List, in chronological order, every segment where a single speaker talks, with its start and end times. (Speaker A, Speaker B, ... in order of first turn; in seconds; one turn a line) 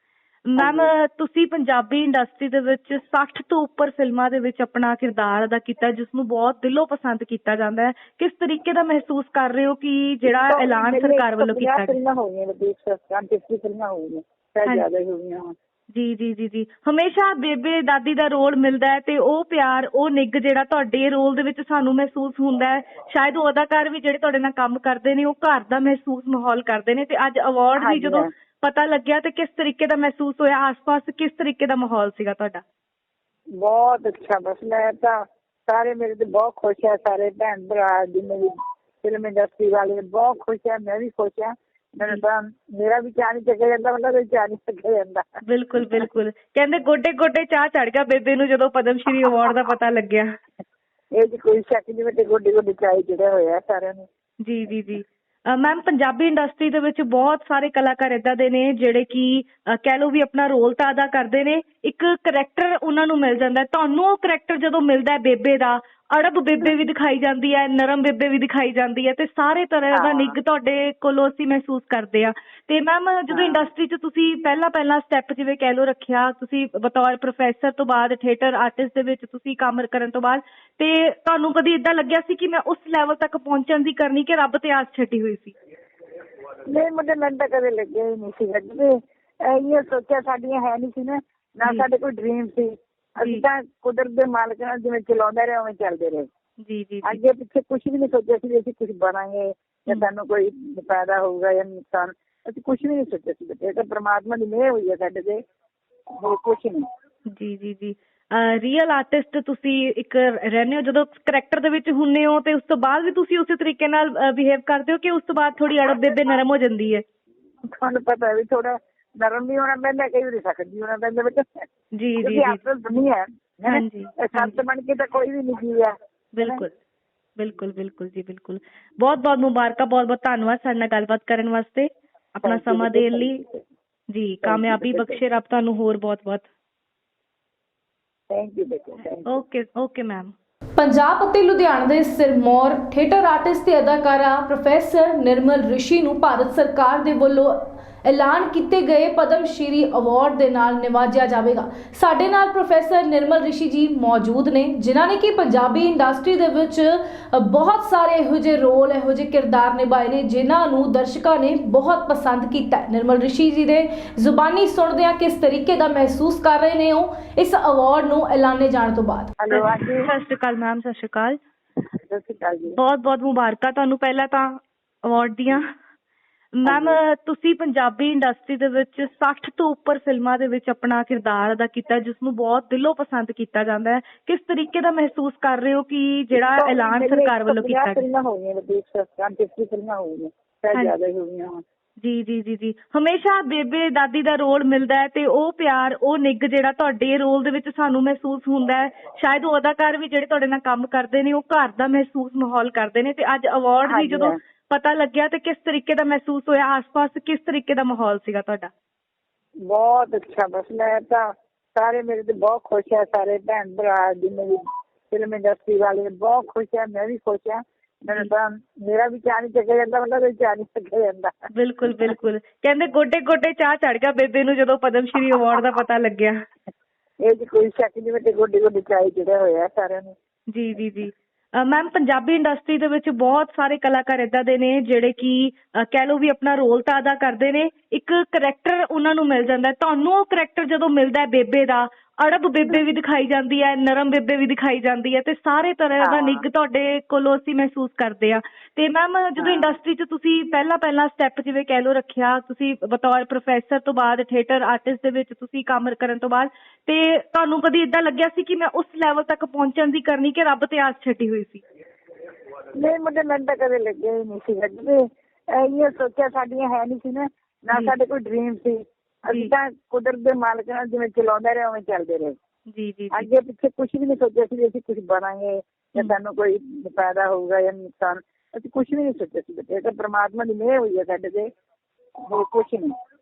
Speaker A: 0.5-12.0
Speaker B: 0.6-0.9
Speaker B: 10.3-15.5
Speaker A: 15.9-32.6
Speaker B: 27.8-28.3
Speaker B: 33.6-38.5
Speaker B: 39.0-45.4
Speaker A: 45.5-50.2
Speaker B: 51.1-54.1
Speaker A: 54.4-85.5
Speaker B: 69.9-70.3
Speaker B: 73.3-73.7
Speaker B: 86.6-96.3
Speaker A: 96.6-97.2
Speaker B: 97.0-105.4
Speaker B: 106.2-106.8
Speaker A: 107.3-117.0
Speaker B: 117.8-121.6
Speaker A: 121.9-122.6
Speaker B: 122.2-126.6
Speaker A: 123.7-124.6
Speaker A: 126.3-126.7
Speaker A: 127.4-133.3
Speaker B: 132.4-133.6
Speaker A: 134.1-136.4
Speaker B: 134.4-135.2
Speaker B: 138.3-139.4
Speaker A: 139.3-140.3
Speaker C: 140.8-169.3
Speaker B: 169.4-170.1
Speaker A: 169.5-171.4
Speaker B: 172.1-172.8
Speaker A: 172.8-175.7
Speaker A: 176.6-188.0
Speaker B: 176.7-177.0
Speaker B: 186.3-191.6
Speaker A: 192.0-208.7
Speaker B: 203.8-204.4
Speaker B: 209.7-214.6
Speaker B: 215.1-221.3
Speaker A: 221.5-226.3
Speaker B: 227.2-230.1
Speaker A: 230.5-261.6
Speaker B: 246.0-246.4
Speaker B: 249.4-249.8
Speaker B: 262.8-272.4
Speaker A: 272.7-273.3
Speaker B: 273.1-281.5
Speaker B: 282.2-282.9